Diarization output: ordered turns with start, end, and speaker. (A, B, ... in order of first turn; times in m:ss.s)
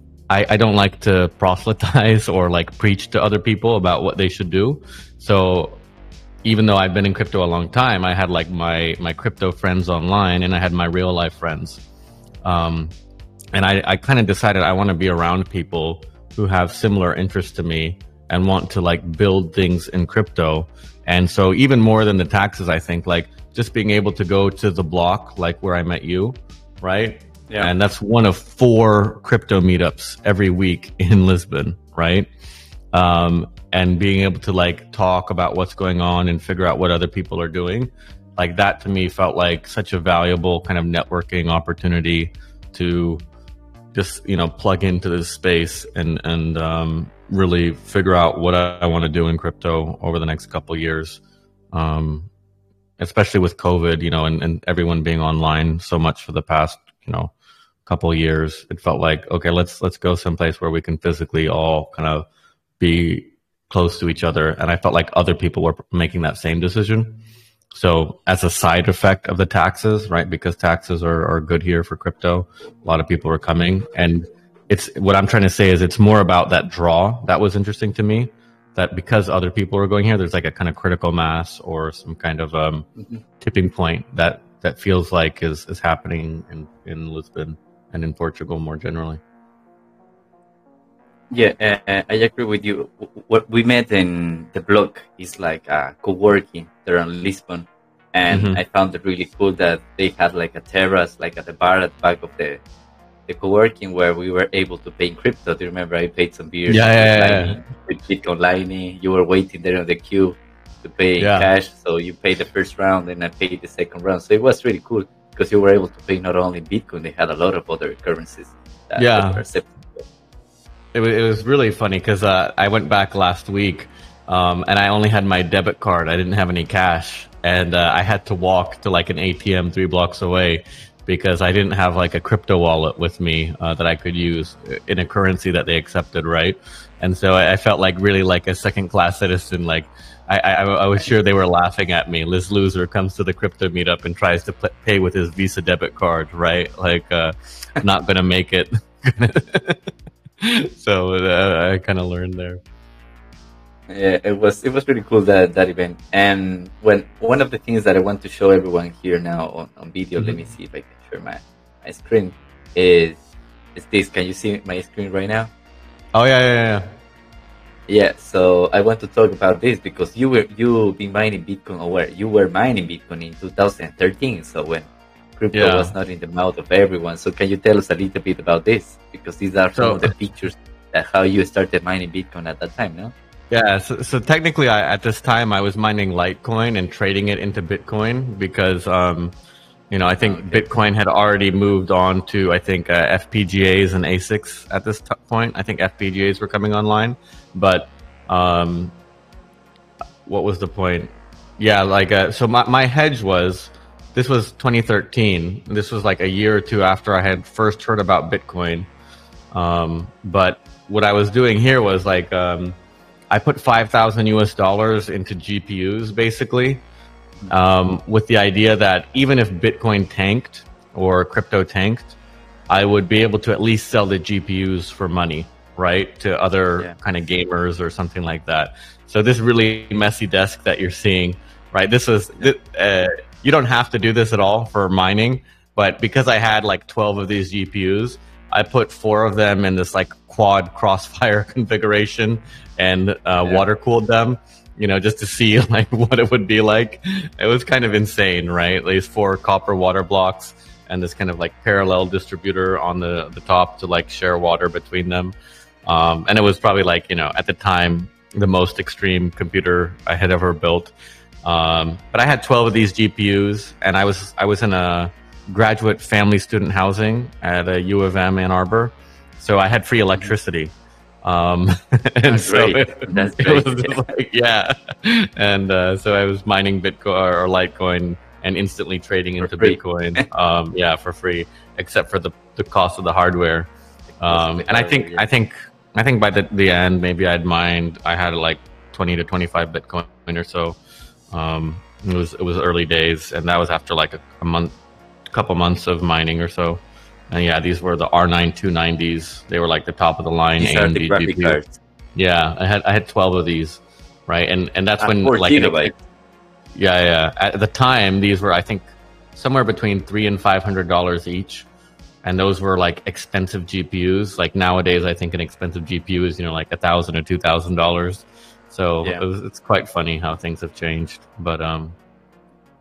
0:00.3-0:05.8 A
0:06.4-0:11.8 A
0:12.4-0:12.9 A
0:13.5-0:32.3 A
0:32.9-0:43.2 A
0:43.9-0:51.2 A
0:51.7-0:52.3 A
0:53.0-0:57.3 A
0:57.8-1:02.3 A
1:02.8-1:07.2 A
1:07.7-1:22.9 A
1:23.4-1:29.2 A
1:31.3-1:42.6 B
1:38.3-1:38.6 A
1:43.3-2:00.0 B
1:46.7-1:47.6 A
1:51.2-1:51.5 A
1:59.0-1:59.4 A
2:00.9-2:29.8 A
2:30.4-2:32.6 A
2:33.9-2:43.2 B
2:43.7-2:45.5 B
2:46.1-2:46.8 A
2:47.9-3:03.1 B
2:55.5-2:55.9 A
2:59.7-3:00.1 A
3:03.5-3:09.3 A
3:09.9-3:18.9 A
3:10.2-3:10.7 B
3:20.2-3:28.9 A
3:29.5-3:32.8 A
3:33.3-3:36.8 A
3:37.5-3:42.2 A
3:42.7-4:15.3 A
4:15.8-4:20.9 A
4:21.4-4:30.7 A
4:31.2-4:43.7 A
4:32.2-4:34.0 B
4:39.4-4:40.2 B
4:44.2-4:45.2 B
4:44.2-4:50.8 A
4:51.3-4:54.7 A
4:55.3-5:01.6 A
5:00.6-5:01.8 B
5:02.1-5:05.9 A
5:05.0-5:05.9 B
5:06.7-5:11.7 A
5:12.2-5:22.0 A